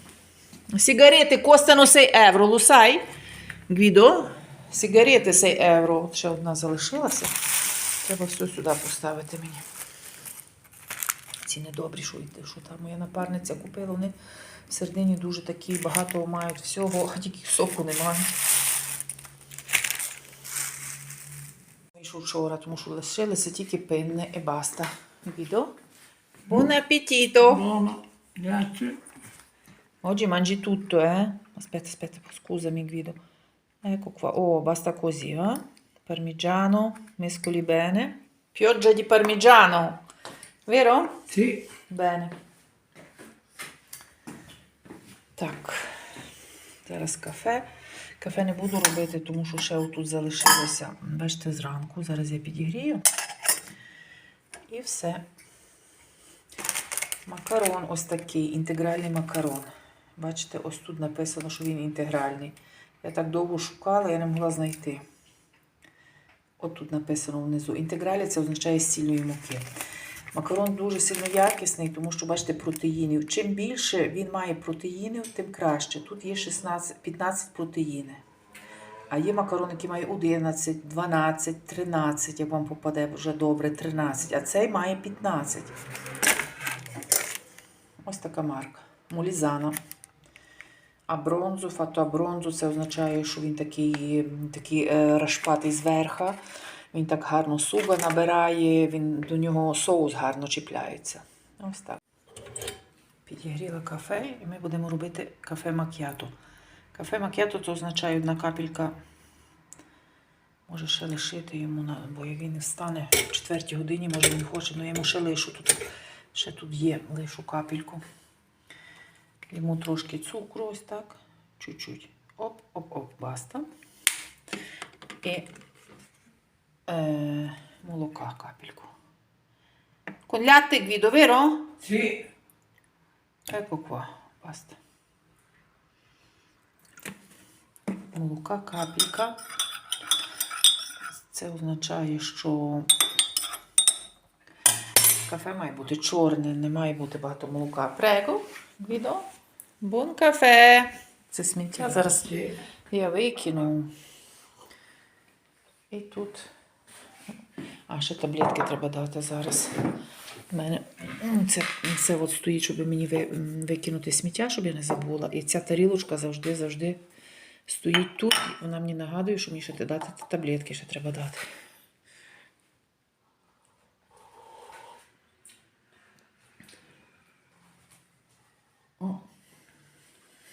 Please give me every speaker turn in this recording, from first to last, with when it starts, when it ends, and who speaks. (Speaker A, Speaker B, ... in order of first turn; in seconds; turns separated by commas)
Speaker A: 0.7-3.0, Speaker A: 3.7-7.3, Speaker A: 8.0-9.6, Speaker A: 11.4-14.1, Speaker A: 14.7-18.3, Speaker A: 21.9-25.7, Speaker A: 26.5-27.7, Speaker B: 27.4-29.0, Speaker A: 30.0-33.2, Speaker A: 33.8-40.0, Speaker A: 40.7-41.1, Speaker B: 41.3-41.6, Speaker A: 41.9-42.3, Speaker A: 45.4-46.0, Speaker A: 46.9-47.7, Speaker A: 48.2-53.0, Speaker A: 54.7-55.3, Speaker A: 57.3-65.0, Speaker A: 66.6-69.7, Speaker A: 70.3-78.2, Speaker A: 79.1-85.7, Speaker A: 88.0-89.8, Speaker A: 91.1-96.4, Speaker A: 96.9-102.0, Speaker A: 103.3-106.3, Speaker A: 106.9-109.0, Speaker A: 110.7-118.0, Speaker A: 119.5-123.7, Speaker A: 126.9-128.9, Speaker A: 130.3-131.7, Speaker B: 131.8-132.3, Speaker A: 133.5-134.8, Speaker A: 138.1-139.4, Speaker A: 141.3-142.9, Speaker A: 145.3-149.3, Speaker A: 149.8-152.3, Speaker B: 151.8-152.6, Speaker A: 152.9-153.9, Speaker A: 155.9-156.5, Speaker A: 157.9-159.7, Speaker A: 160.5-167.0, Speaker A: 167.7-171.4